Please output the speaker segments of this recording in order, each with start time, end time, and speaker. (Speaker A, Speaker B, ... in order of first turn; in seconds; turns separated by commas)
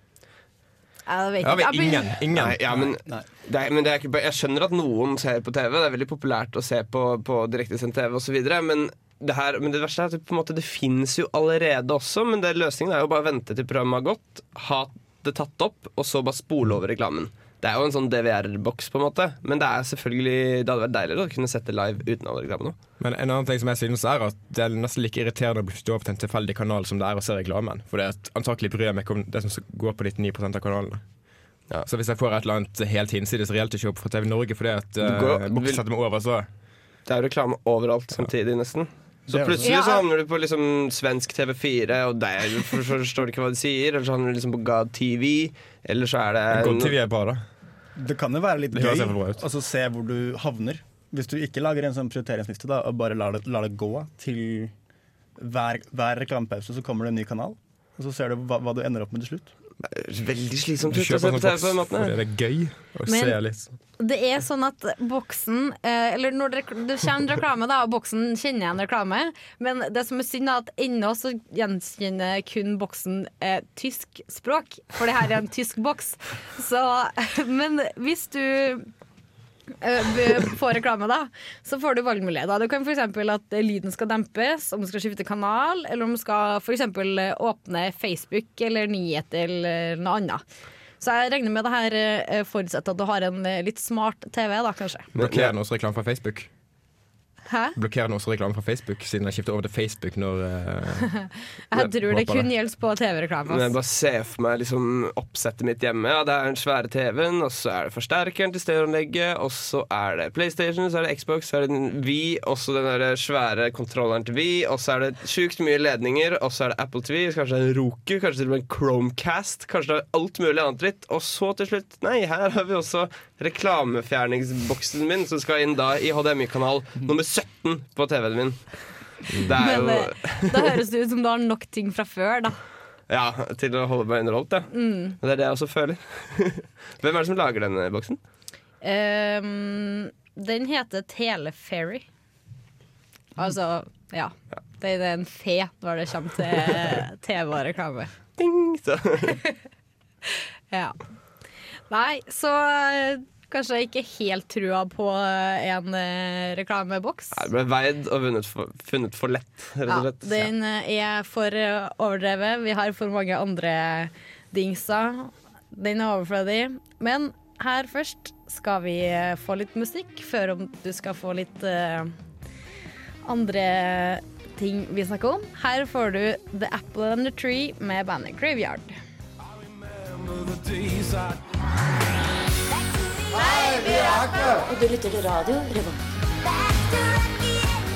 Speaker A: 1.1-2.2, Speaker B: 1.4-2.6, Speaker C: 2.3-22.8, Speaker D: 2.7-3.2, Speaker B: 23.0-31.0, Speaker B: 31.9-36.5, Speaker C: 35.0-35.8, Speaker C: 37.1-46.9, Speaker D: 39.3-39.7, Speaker A: 39.6-40.0, Speaker B: 46.5-47.4, Speaker D: 48.0-54.7, Speaker B: 48.8-49.4, Speaker D: 55.4-59.5, Speaker C: 59.9-62.1, Speaker B: 60.9-63.7, Speaker A: 63.1-63.4, Speaker A: 64.0-78.9, Speaker A: 79.8-90.4, Speaker A: 91.0-95.1, Speaker C: 95.2-95.5, Speaker B: 95.2-96.5, Speaker A: 97.5-97.8, Speaker B: 97.8-101.1, Speaker A: 101.2-103.7, Speaker B: 102.0-102.5, Speaker C: 103.5-128.7, Speaker C: 129.4-130.7, Speaker A: 129.6-132.6, Speaker C: 133.1-138.2, Speaker A: 134.7-135.2, Speaker A: 138.8-142.1, Speaker A: 143.4-148.1, Speaker C: 148.4-149.4, Speaker A: 150.2-151.0, Speaker A: 151.9-157.4, Speaker C: 157.3-160.5, Speaker A: 159.9-172.1, Speaker A: 173.2-179.0, Speaker E: 183.2-186.0